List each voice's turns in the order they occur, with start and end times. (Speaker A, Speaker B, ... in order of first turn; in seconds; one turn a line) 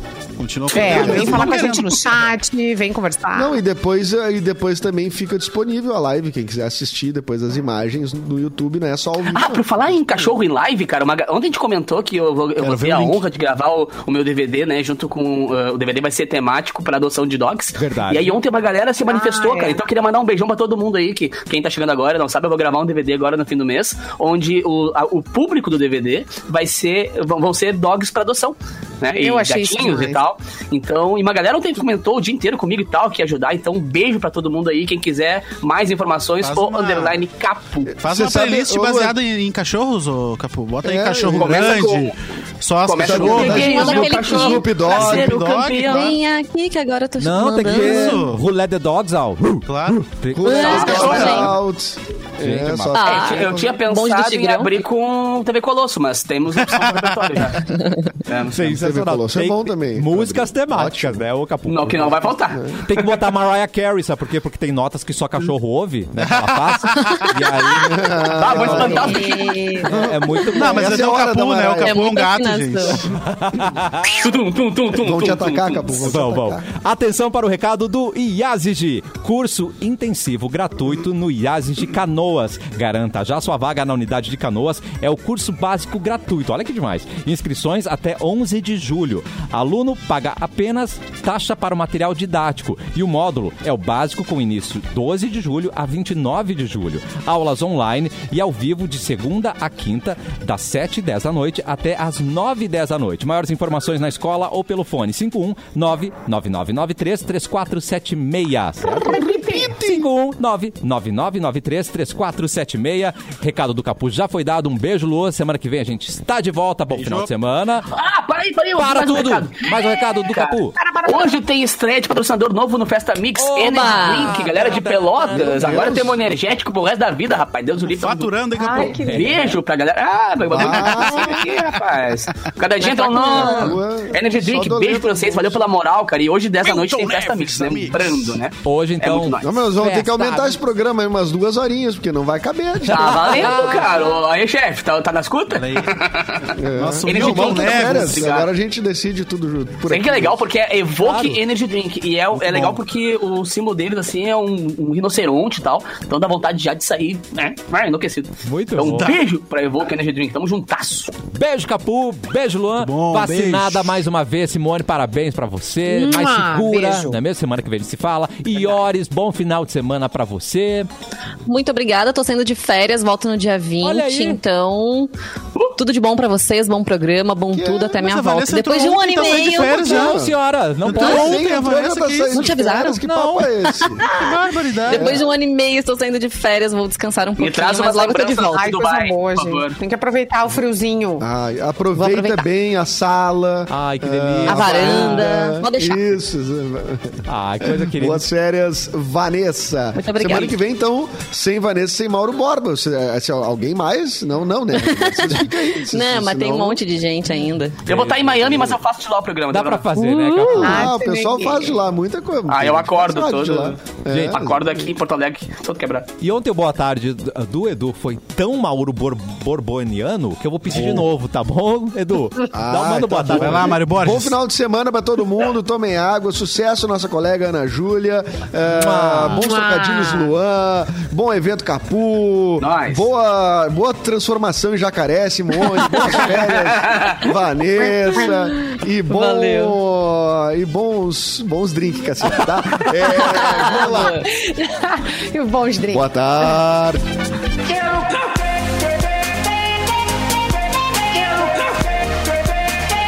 Speaker A: 0.4-2.3
Speaker B: 0.7-3.6
Speaker C: 0.8-1.4
Speaker D: 1.0-1.4
Speaker C: 3.3-10.4
Speaker D: 9.3-37.9
Speaker A: 12.6-13.2
Speaker E: 17.8-18.4
Speaker B: 19.1-19.8
Speaker B: 29.2-30.2
Speaker A: 36.4-37.2
Speaker C: 37.9-39.2
Speaker A: 38.0-44.0
Speaker C: 40.8-41.8
Speaker D: 41.3-42.1
Speaker D: 42.8-46.1
Speaker C: 43.0-45.4
Speaker F: 43.2-48.2
Speaker A: 44.7-46.1
Speaker E: 47.2-50.9
Speaker A: 47.7-48.4
Speaker A: 49.6-50.1
Speaker C: 50.3-53.7
Speaker F: 50.4-51.5
Speaker A: 50.6-51.5
Speaker D: 50.6-51.5
Speaker E: 52.4-53.0
Speaker F: 52.9-54.8
Speaker D: 53.0-57.7
Speaker A: 56.6-57.1
Speaker D: 58.2-58.8
Speaker E: 58.5-62.3
Speaker C: 58.7-61.2
Speaker D: 61.7-63.2
Speaker E: 62.8-69.1
Speaker A: 66.2-67.4
Speaker C: 67.7-69.2
Speaker D: 68.3-69.5
Speaker F: 68.7-69.9
Speaker B: 68.8-69.9
Speaker E: 69.9-71.1
Speaker C: 69.9-72.0
Speaker A: 70.6-73.1
Speaker F: 71.8-73.0
Speaker E: 73.2-74.2
Speaker D: 74.0-76.1
Speaker C: 74.9-76.7
Speaker E: 76.0-117.9
Speaker B: 108.8-110.0
Speaker A: 116.9-117.3
Speaker D: 117.9-139.5
Speaker E: 118.7-120.8
Speaker B: 120.8-121.3
Speaker E: 123.4-125.9
Speaker F: 123.6-124.4
Speaker C: 125.3-126.2
Speaker A: 128.0-129.2
Speaker B: 128.5-129.6
Speaker E: 129.0-129.5
Speaker C: 130.5-131.3
Speaker A: 130.5-131.2
Speaker B: 130.8-131.8
Speaker F: 132.8-133.8
Speaker C: 133.3-135.6
Speaker A: 136.6-138.4
Speaker E: 138.6-139.4
Speaker C: 139.4-143.5
Speaker F: 139.8-140.6
Speaker E: 142.8-143.9
Speaker D: 142.9-146.5
Speaker E: 145.5-145.9
Speaker C: 146.6-150.4
Speaker A: 146.7-148.3
Speaker D: 147.0-148.5
Speaker D: 149.9-161.1
Speaker E: 151.0-151.4
Speaker A: 152.3-152.8
Speaker E: 158.4-159.1
Speaker A: 158.8-159.2
Speaker E: 161.3-170.9
Speaker A: 162.8-164.0
Speaker B: 165.8-167.2
Speaker F: 171.4-175.1
Speaker E: 173.8-174.4
Speaker F: 175.8-180.1
Speaker C: 177.5-177.9
Speaker A: 177.9-180.2
Speaker E: 179.5-181.5
Speaker C: 179.5-180.3
Speaker A: 180.8-182.5
Speaker C: 180.9-184.0
Speaker F: 182.3-183.0
Speaker E: 183.0-184.1
Speaker F: 183.7-184.3
Speaker A: 184.1-185.1
Speaker C: 184.8-185.2
Speaker F: 184.9-188.7
Speaker D: 187.4-189.8
Speaker B: 188.5-191.2
Speaker C: 191.2-206.8
Speaker F: 191.9-192.4
Speaker E: 193.7-195.3
Speaker F: 194.4-196.1
Speaker E: 197.3-198.2
Speaker F: 199.9-200.6
Speaker F: 204.8-207.8
Speaker D: 207.8-209.9
Speaker C: 207.9-208.8
Speaker E: 209.5-210.9
Speaker F: 209.9-210.7
Speaker B: 210.5-211.8
Speaker C: 210.6-214.9
Speaker D: 212.5-216.1
Speaker E: 214.1-214.4
Speaker E: 216.2-223.8
Speaker C: 220.7-221.0
Speaker C: 222.5-244.2
Speaker A: 223.3-224.4
Speaker E: 228.7-229.5
Speaker B: 229.4-230.3
Speaker D: 232.6-233.1
Speaker D: 236.6-237.2
Speaker F: 239.1-239.7
Speaker F: 243.1-244.2
Speaker B: 243.6-246.1
Speaker C: 245.9-247.0
Speaker B: 247.7-248.1
Speaker B: 251.2-251.6